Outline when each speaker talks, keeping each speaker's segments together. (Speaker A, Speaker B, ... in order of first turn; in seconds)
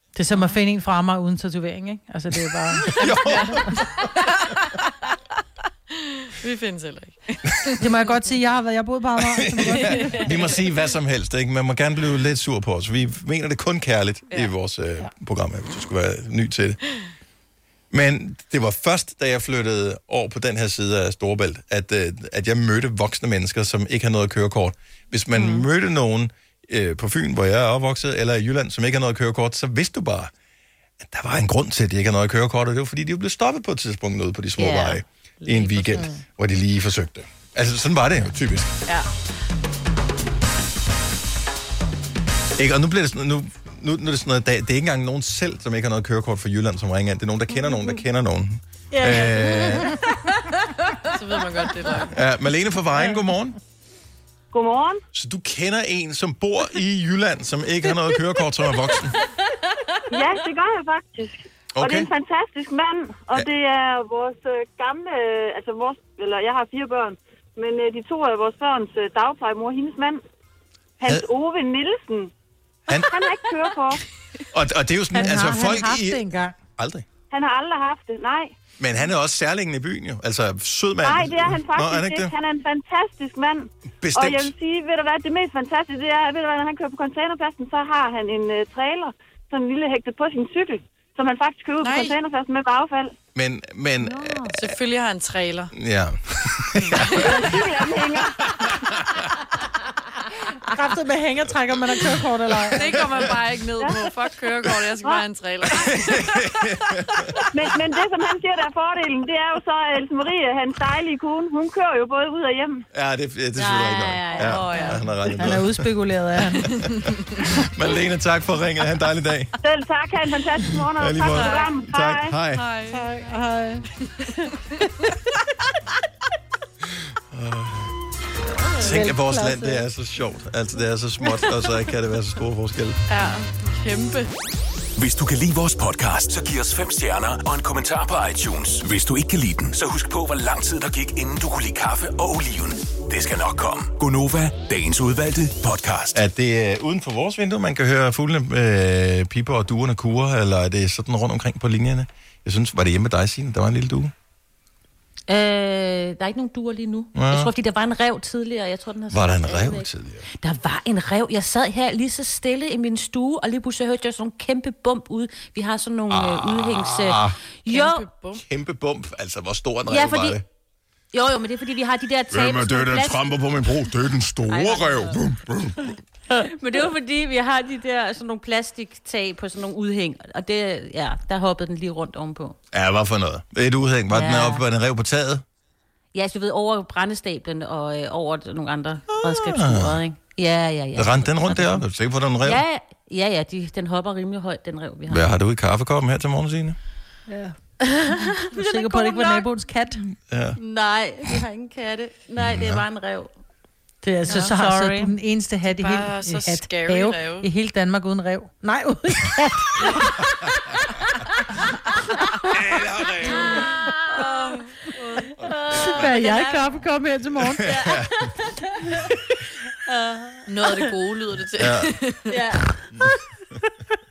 Speaker A: 0.1-3.6, 7.8-10.3, 75.1-76.5, 100.6-103.0, 115.4-116.7, 122.9-124.5, 128.8-129.8, 197.3-197.6, 198.1-200.0, 204.0-210.2, 215.8-217.7
Speaker B: 2.9-4.0, 9.2-16.8, 17.9-30.3, 31.0-38.8, 42.6-50.0, 52.1-53.6, 55.1-59.2, 61.8-62.1, 72.9-73.2, 74.5-77.1, 78.8-82.3, 84.0-84.5, 93.3-94.8, 95.7-97.5, 98.6-99.2, 102.9-103.3, 105.7-107.4, 112.9-115.9, 116.6-119.5, 120.9-122.7, 127.3-127.9, 128.8-133.0, 146.1-154.1, 157.1-157.5, 159.1-160.3, 166.1-167.4, 168.3-170.4, 172.3-176.0, 182.7-185.4, 189.1-190.0, 190.9-192.6, 195.1-196.8, 200.3-200.6, 202.4-202.8, 212.5-213.6, 217.4-218.3, 221.6-221.9
Speaker C: 3.0-5.0, 5.9-7.9, 9.9-10.3, 51.1-52.1, 91.8-92.2, 94.5-95.7, 96.9-97.5, 102.7-107.3, 114.3-115.1, 116.8-117.2, 121.3-121.8, 122.5-123.2, 133.1-134.3, 167.7-168.4, 205.7-207.5, 214.2-214.6, 220.5-222.4
Speaker D: 25.4-25.7, 34.6-36.2, 48.9-50.5, 94.0-94.5, 113.6-115.0, 155.3-159.9, 160.4-168.1, 169.9-170.4, 171.1-173.3, 174.5-175.2, 176.3-182.6, 184.1-184.7, 186.1-191.8, 192.4-195.3, 197.8-199.5, 200.6-203.3, 204.3-205.1, 213.2-216.8, 217.6-219.2, 219.8-220.9, 222.3-223.2
Speaker E: 54.5-55.0, 60.1-70.2, 71.0-72.3, 72.9-74.0, 77.3-78.5, 81.0-93.2, 97.1-98.5, 107.5-112.8, 119.6-122.3
Speaker F: 135.0-146.2